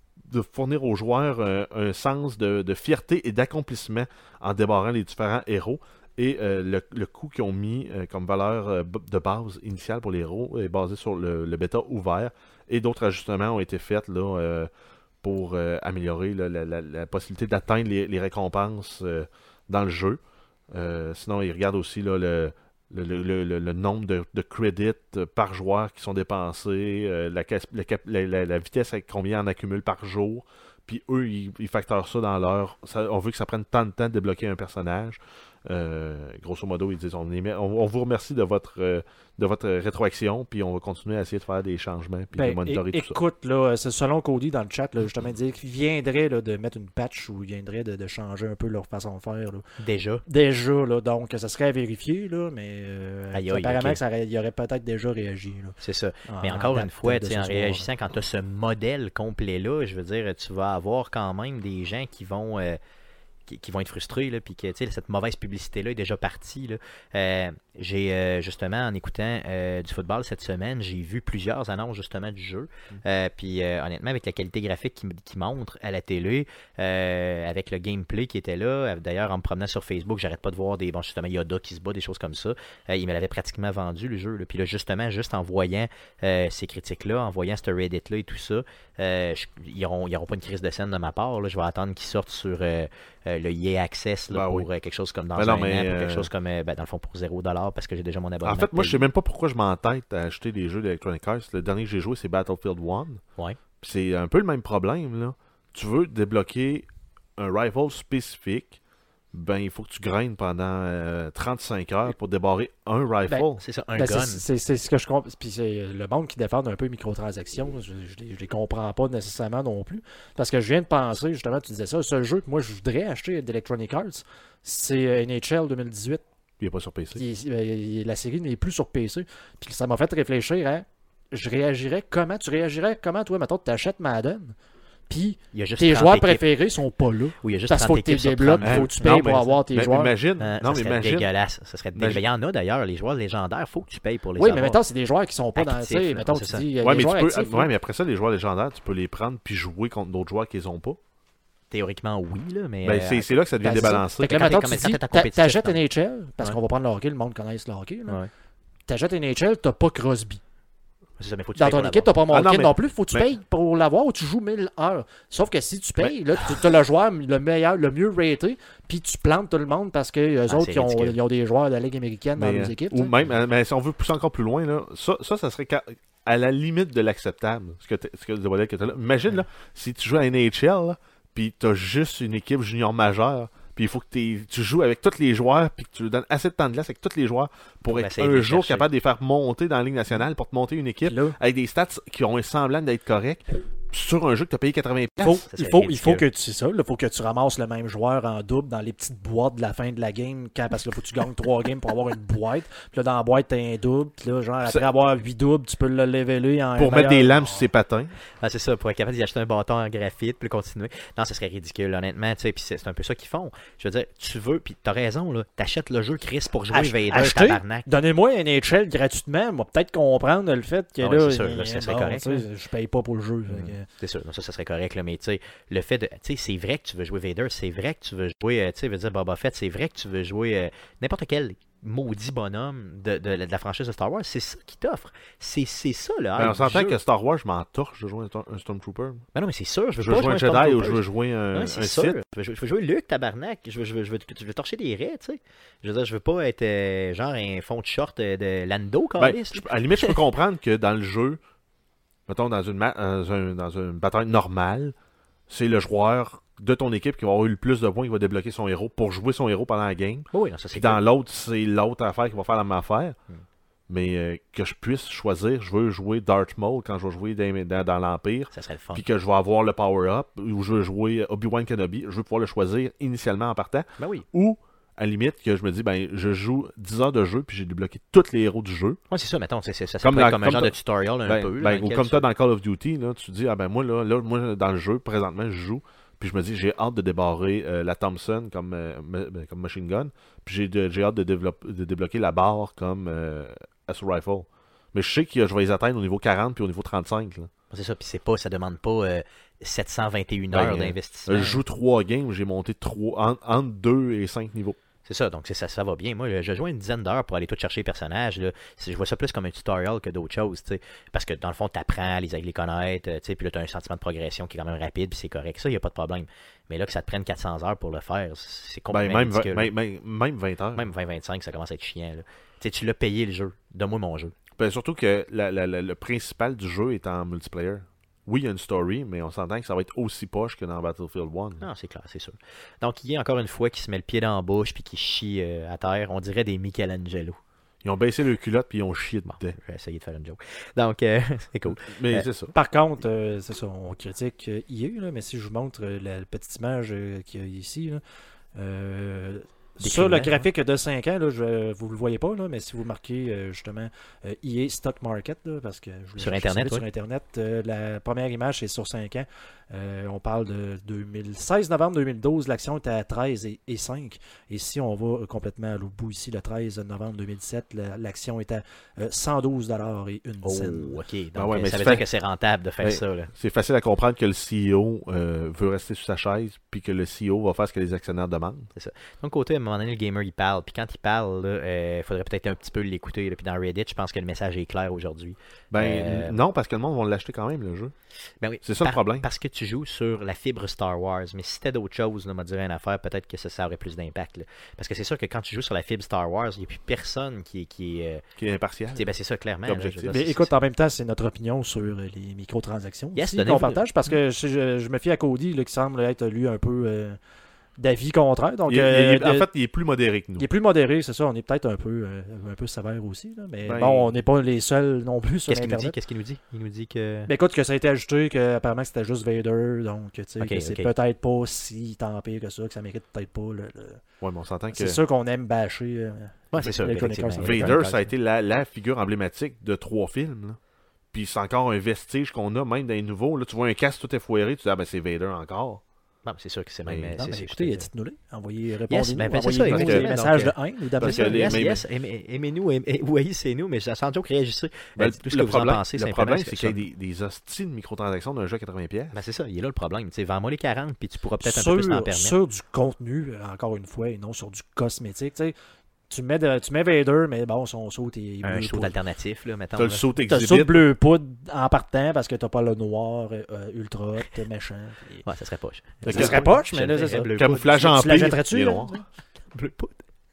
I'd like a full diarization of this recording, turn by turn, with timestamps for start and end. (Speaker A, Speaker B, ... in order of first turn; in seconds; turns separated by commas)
Speaker A: 0.2-14.7, Speaker A: 15.2-43.2, Speaker B: 42.3-49.6, Speaker C: 49.8-50.2, Speaker B: 50.3-55.8, Speaker C: 53.3-54.0, Speaker C: 55.8-62.8, Speaker B: 56.3-57.9, Speaker C: 63.5-99.1, Speaker A: 94.3-94.7, Speaker A: 95.3-96.3, Speaker A: 98.4-103.2, Speaker A: 103.8-108.8, Speaker A: 109.3-113.6, Speaker B: 113.3-126.2, Speaker C: 113.6-114.4, Speaker A: 126.6-127.2, Speaker B: 127.1-134.5, Speaker B: 135.1-140.1, Speaker C: 135.5-136.4, Speaker C: 137.4-138.9, Speaker A: 138.6-141.3, Speaker C: 140.4-144.8, Speaker A: 141.9-142.2, Speaker B: 144.4-147.7, Speaker C: 145.5-146.7, Speaker A: 146.8-151.0, Speaker C: 151.7-155.8, Speaker A: 152.8-154.5, Speaker B: 153.6-158.2, Speaker B: 158.9-160.4, Speaker C: 161.2-162.2, Speaker B: 161.6-173.1, Speaker A: 162.3-163.3, Speaker C: 170.5-171.2, Speaker A: 172.4-195.4, Speaker C: 187.9-188.9, Speaker B: 191.0-191.4, Speaker B: 195.2-207.7, Speaker C: 195.5-196.2, Speaker A: 206.8-208.1, Speaker C: 208.4-217.8, Speaker B: 216.7-223.8, Speaker C: 221.0-222.4, Speaker C: 223.5-237.0, Speaker A: 236.3-239.2, Speaker C: 239.3-250.2, Speaker A: 240.0-242.2, Speaker A: 249.2-251.4, Speaker A: 252.3-254.9, Speaker A: 255.5-263.1, Speaker C: 260.3-261.0, Speaker A: 263.9-279.0, Speaker C: 268.5-269.1, Speaker C: 274.0-274.2, Speaker C: 279.1-282.2, Speaker A: 280.0-297.5, Speaker C: 297.7-301.6, Speaker A: 300.5-304.8, Speaker C: 305.0-319.7, Speaker A: 318.9-320.9, Speaker C: 320.7-324.3, Speaker A: 324.6-331.6, Speaker C: 331.6-337.4, Speaker A: 337.8-339.6, Speaker C: 339.3-342.3, Speaker A: 341.7-342.5, Speaker B: 342.5-348.0, Speaker B: 348.6-371.0, Speaker C: 349.8-350.5, Speaker C: 356.2-356.8, Speaker C: 370.4-373.3, Speaker A: 371.4-372.1, Speaker A: 372.8-378.7, Speaker C: 378.7-386.4, Speaker A: 385.7-387.9, Speaker C: 388.4-398.2, Speaker A: 388.6-389.2, Speaker A: 398.4-399.1, Speaker C: 398.9-400.5, Speaker A: 399.6-400.3, Speaker B: 400.1-407.2, Speaker C: 403.1-403.8, Speaker B: 407.8-409.5, Speaker A: 408.7-410.5, Speaker B: 410.4-415.9, Speaker A: 413.6-414.1, Speaker C: 415.5-417.3, Speaker B: 417.3-424.0, Speaker C: 420.4-420.9, Speaker A: 424.2-425.0, Speaker B: 424.7-427.8, Speaker C: 426.5-428.1, Speaker A: 427.4-430.6, Speaker A: 431.1-435.8, Speaker C: 436.2-437.9, Speaker A: 436.9-437.1, Speaker B: 437.1-441.6, Speaker C: 438.9-446.8, Speaker A: 439.6-440.1, Speaker A: 441.0-441.8, Speaker A: 444.9-449.2, Speaker C: 449.1-452.3, Speaker B: 451.4-455.5, Speaker B: 456.1-458.9, Speaker C: 458.4-460.0, Speaker A: 459.8-460.8, Speaker B: 460.3-465.2, Speaker C: 465.2-467.8, Speaker B: 466.0-468.9, Speaker A: 466.1-466.5, Speaker A: 467.3-468.9, Speaker C: 468.9-470.0